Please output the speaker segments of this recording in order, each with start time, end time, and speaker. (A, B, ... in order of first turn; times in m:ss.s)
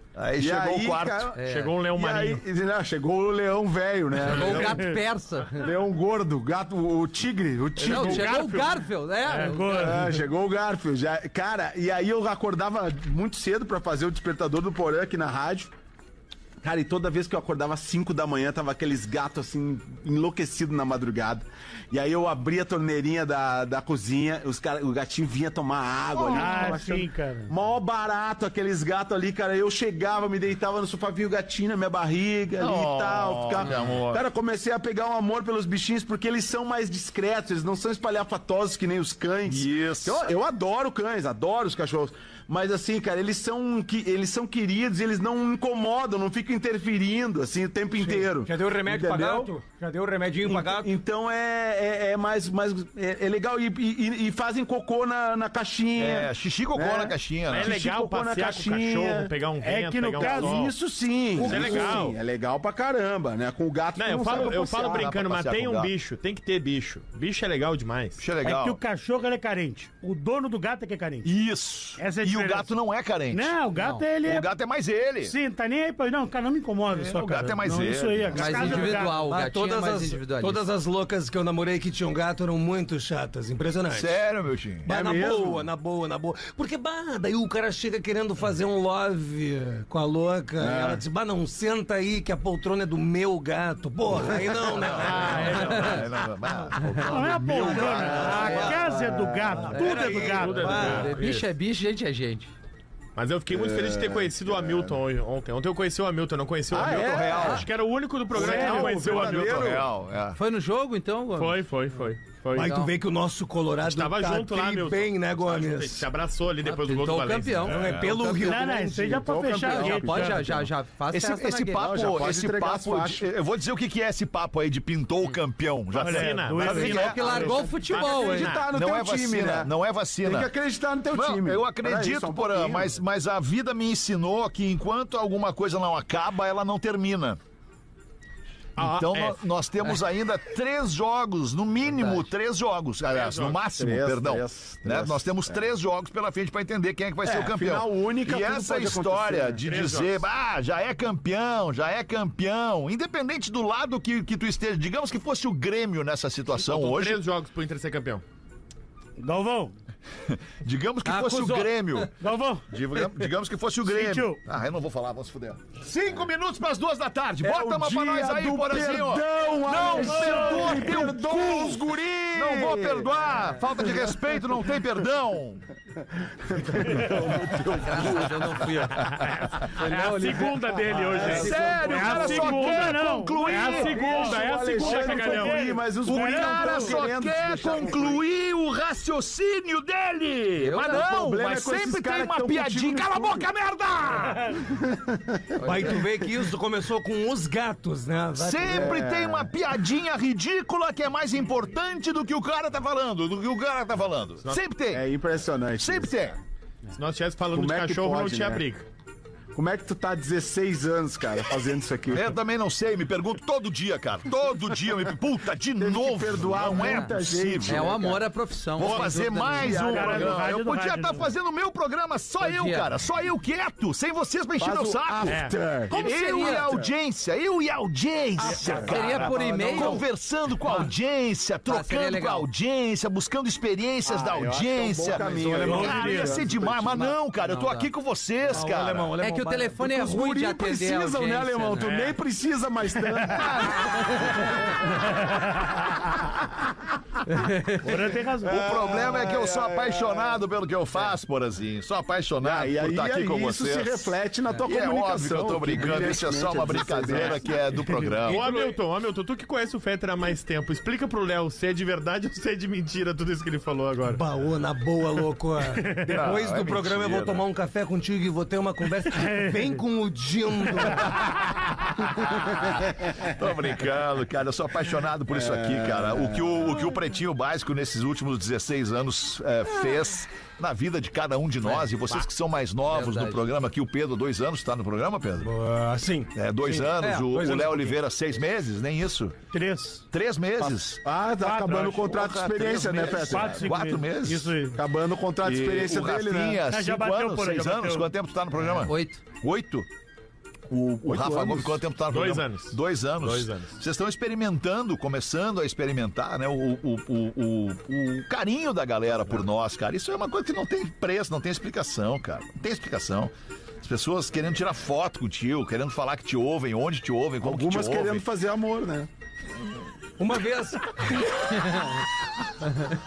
0:00.1-0:01.3 A
0:00.4-0:01.4 B
0:01.3-0:01.7 C
0:01.4-0:02.4 D
0:01.9-0:04.8 B
0:04.2-0:05.7 C
0:04.4-0:04.7 D
0:04.7-0:04.9 E
0:05.6-0:08.3 B
0:07.8-0:08.8 D
0:07.8-0:10.0 C
0:09.2-0:10.1 E
0:09.8-0:15.7 B
0:16.6-0:49.5 B
0:26.2-0:27.5 E
0:32.6-0:34.2 A
0:33.6-0:34.0 C
0:39.5-0:40.2 A
0:48.0-0:50.9 F
0:50.4-0:59.3 B
0:56.0-0:57.7 A
0:57.5-1:00.7 D
0:59.6-1:00.7 E
1:00.2-1:05.1 B
1:01.4-1:02.0 F
1:01.4-1:02.2 D
1:01.5-1:02.0 E
1:04.0-1:08.2 D
1:04.8-1:05.9 A
1:08.2-1:08.8 A
1:08.4-1:11.3 E
1:11.2-1:13.6 A
1:12.0-1:12.7 E
1:13.3-1:14.5 E
1:13.8-1:14.0 C
1:14.2-1:15.3 A
1:15.2-1:19.2 E
1:16.9-1:18.7 A
1:18.3-1:20.6 C
1:18.5-1:24.2 F
1:23.9-1:24.9 A
1:24.8-1:36.0 F
1:24.8-1:25.7 B
1:30.6-1:31.0 B
1:34.7-1:38.8 A
1:35.0-1:36.0 D
1:35.3-1:36.0 C
1:37.0-1:40.9 E
1:38.1-1:41.2 F
1:38.2-1:38.7 C
1:38.9-1:39.6 B
1:39.7-1:42.5 C
1:40.2-1:41.4 D
1:43.2-1:49.8 D
1:43.5-1:45.0 B
1:46.7-1:47.7 B
1:46.8-1:47.6 A
1:48.3-1:49.9 B
1:48.3-1:50.4 A
1:48.4-1:49.1 E
1:50.3-1:51.6 C
1:51.4-1:52.8 D
1:52.5-1:56.1 F
1:52.6-1:52.9 C
1:53.8-1:57.8 D
1:56.6-1:58.6 C
1:57.6-1:59.1 F
1:57.7-1:58.2 A
1:58.3-2:00.6 E
1:58.9-2:00.7 B
1:59.5-2:02.0 C
2:01.1-2:07.5 A
2:01.8-2:03.2 B
2:05.9-2:08.7 D
2:05.9-2:07.0 E
2:06.7-2:09.7 B
2:06.7-2:08.6 C
2:08.7-2:10.5 A
2:10.2-2:13.0 B
2:11.1-2:17.4 A
2:18.8-2:19.4 D
2:18.8-2:37.2 A
2:21.9-2:22.3 C
2:23.1-2:23.6 D
2:23.7-2:25.6 B
2:27.2-2:29.6 B
2:29.6-2:30.2 D
2:36.5-2:38.2 D
2:39.2-2:39.7 E
2:40.3-2:42.1 A
2:41.0-2:42.1 C
2:42.2-2:42.7 E
2:42.7-2:55.6 A
2:43.8-2:44.4 E
2:47.4-2:53.3 B
2:49.8-2:51.0 E
2:56.0-2:58.4 B
2:56.9-2:57.1 E
2:57.8-2:59.0 C
2:58.9-3:05.7 D
2:59.7-3:02.0 C
3:01.1-3:01.7 B
3:01.2-3:04.1 A
3:01.3-3:07.0 E
3:04.0-3:08.2 B
3:06.0-3:14.6 A
3:10.6-3:11.0 C
3:10.7-3:13.5 B
3:14.6-3:16.0 B
3:15.6-3:15.9 C
3:15.6-3:19.1 F
3:18.3-3:25.0 A
3:18.6-3:19.5 B
3:24.9-3:26.2 B
3:25.8-3:26.4 A
3:27.0-3:28.8 D
3:27.5-3:28.6 B
3:29.5-3:32.3 B
3:32.1-3:38.2 A
3:35.8-3:38.2 B
3:36.7-3:37.1 C
3:37.6-3:40.0 C
3:38.8-3:45.4 A
3:39.3-3:40.4 B
3:39.8-3:41.3 E
3:42.4-3:42.9 C
3:44.6-3:46.9 B
3:45.2-3:45.5 D
3:45.9-3:46.9 C
3:45.9-3:59.1 A
3:48.4-3:50.0 B
3:48.8-3:50.0 C
3:51.6-3:52.5 C
3:54.0-3:57.1 B
3:55.2-3:56.3 F
3:57.4-3:57.9 C
3:58.5-3:59.9 F
3:59.2-4:01.9 C
3:59.8-4:04.8 B
4:01.8-4:02.2 D
4:03.2-4:04.4 A
4:05.1-4:05.8 E
4:07.2-4:08.1 C
4:07.8-4:08.7 E
4:08.4-4:10.4 B
4:08.4-4:14.1 A
4:12.4-4:17.6 B
4:14.6-4:18.5 A
4:18.2-4:18.8 F
4:18.2-4:24.2 D
4:24.0-4:31.2 F
4:26.1-4:27.4 A
4:29.1-4:29.8 E
4:31.1-4:45.5 A
4:35.3-4:36.7 B
4:41.6-4:42.3 C
4:42.8-4:43.4 C
4:45.4-4:48.0 F
4:46.3-4:49.4 A
4:49.5-4:50.0 E
4:50.1-4:51.0 A
4:50.6-4:53.7 B
4:51.4-4:51.9 E
4:51.7-4:54.6 A
4:53.2-4:54.8 E
4:54.7-4:56.6 B
4:55.4-4:59.9 A
4:56.7-4:58.1 E
4:58.8-4:59.2 C
5:00.7-5:18.2 A
5:01.0-5:01.8 B
5:02.1-5:03.8 D
5:17.4-5:19.1 B
5:20.2-5:22.0 F